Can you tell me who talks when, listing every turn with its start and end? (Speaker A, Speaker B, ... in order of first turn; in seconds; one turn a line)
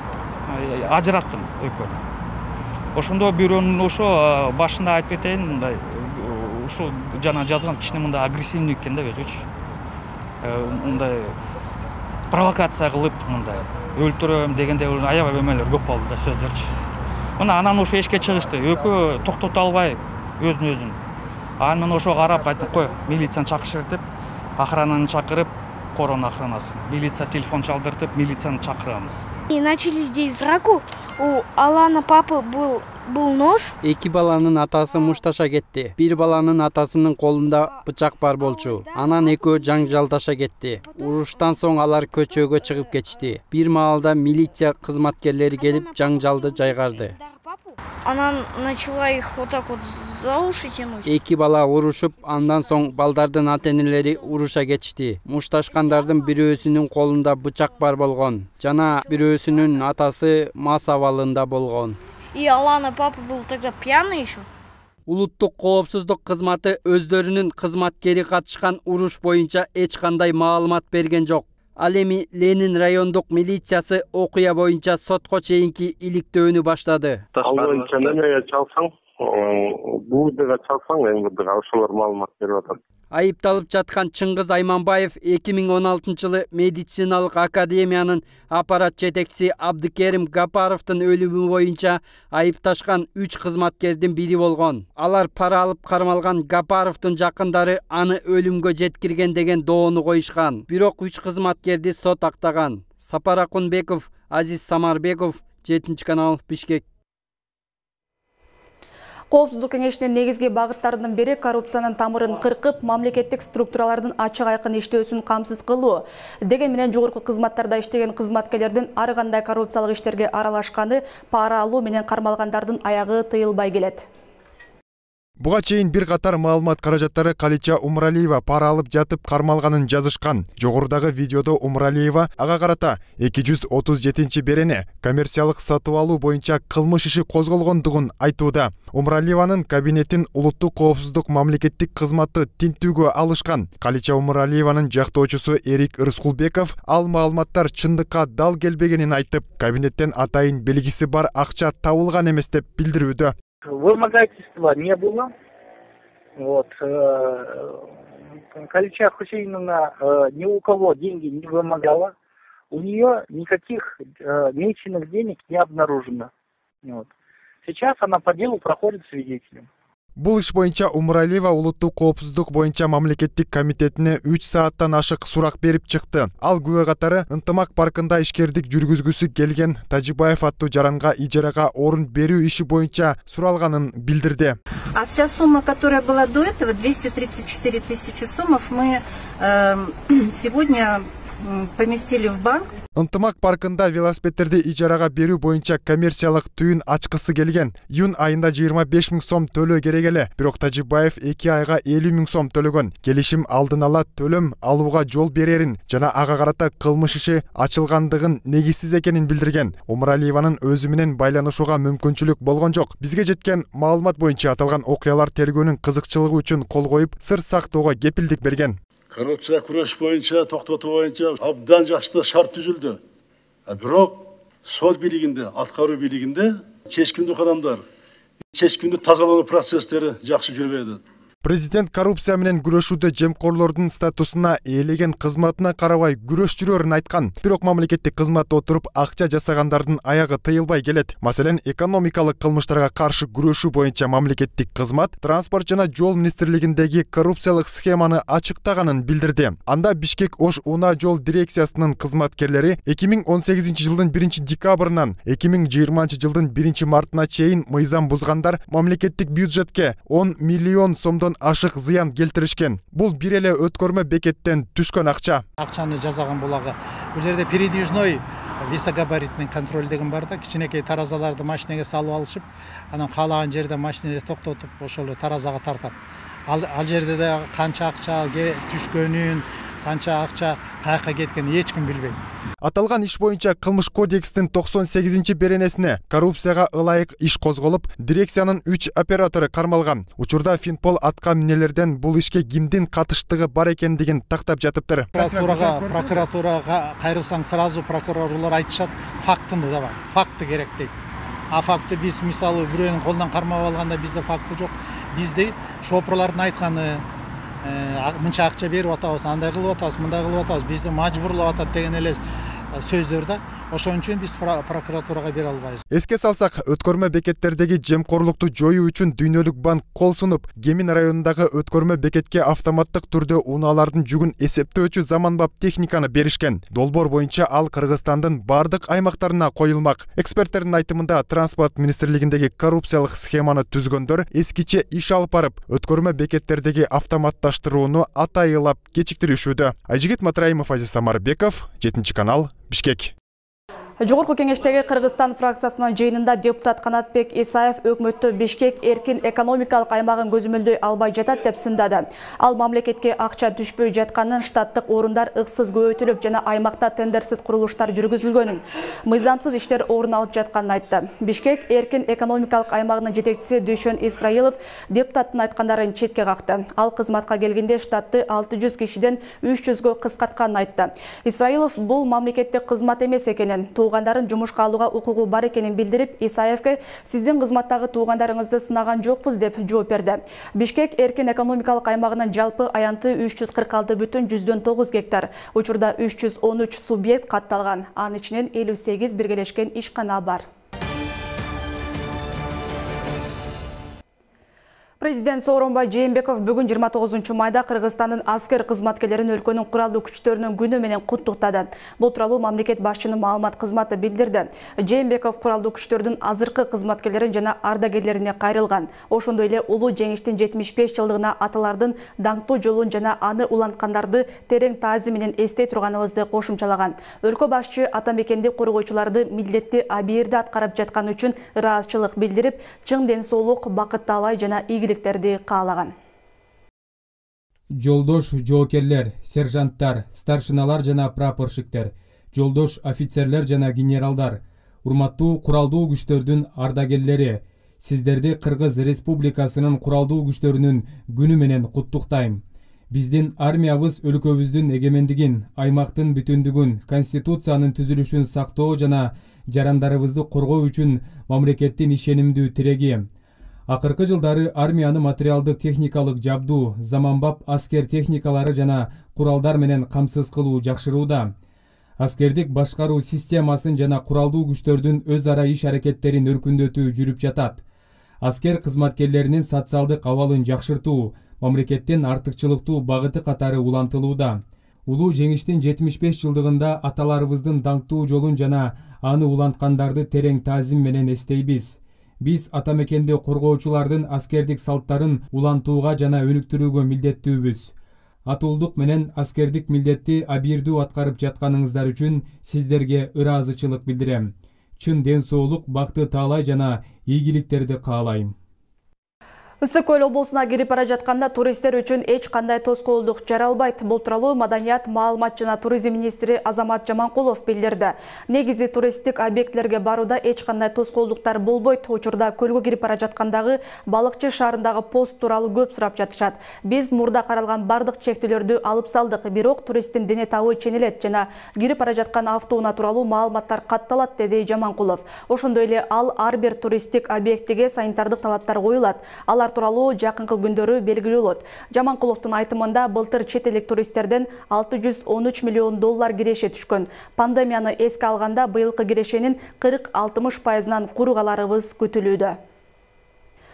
Speaker A: 0.5-2.0
Speaker A: 3.0-9.5
Speaker A: 10.4-11.4
Speaker A: 12.3-16.7
Speaker A: 17.4-21.0
Speaker A: 21.6-24.0
Speaker A: 24.6-29.2
Speaker B: 29.5-33.8
Speaker C: 33.8-47.2
Speaker B: 38.4-39.9
Speaker B: 40.8-41.4
Speaker B: 42.3-42.9
Speaker B: 45.6-51.1
Speaker C: 51.0-62.0
Speaker B: 62.3-64.5
Speaker C: 65.1-77.2
Speaker D: 77.3-82.8
Speaker E: 77.5-78.1
Speaker C: 83.1-106.8
Speaker F: 109.3-124.1
Speaker G: 125.4-153.3
Speaker H: 153.7-155.3
Speaker H: 156.4-157.7
Speaker H: 158.5-162.1
Speaker H: 162.7-166.3
Speaker H: 167.7-169.7
Speaker G: 170.2-184.6
Speaker I: 184.9-192.7
Speaker G: 193.0-218.8
Speaker E: 219.1-223.0
Speaker E: 223.7-227.8
Speaker E: 228.5-231.0
Speaker G: 231.4-265.4
Speaker J: 265.6-276.0
Speaker J: 276.5-282.2
Speaker G: 282.6-295.1
Speaker J: 295.1-300.9
Speaker J: 301.5-307.1
Speaker J: 307.6-312.2
Speaker J: 312.7-315.8
Speaker G: 315.9-343.1
Speaker F: 344.0-390.5
Speaker F: 395.0-425.9
Speaker K: 427.8-453.1
Speaker K: 453.7-461.3
Speaker K: 462.0-467.6
Speaker K: 468.2-487.7
Speaker K: 488.3-498.4
Speaker F: 499.6-542.4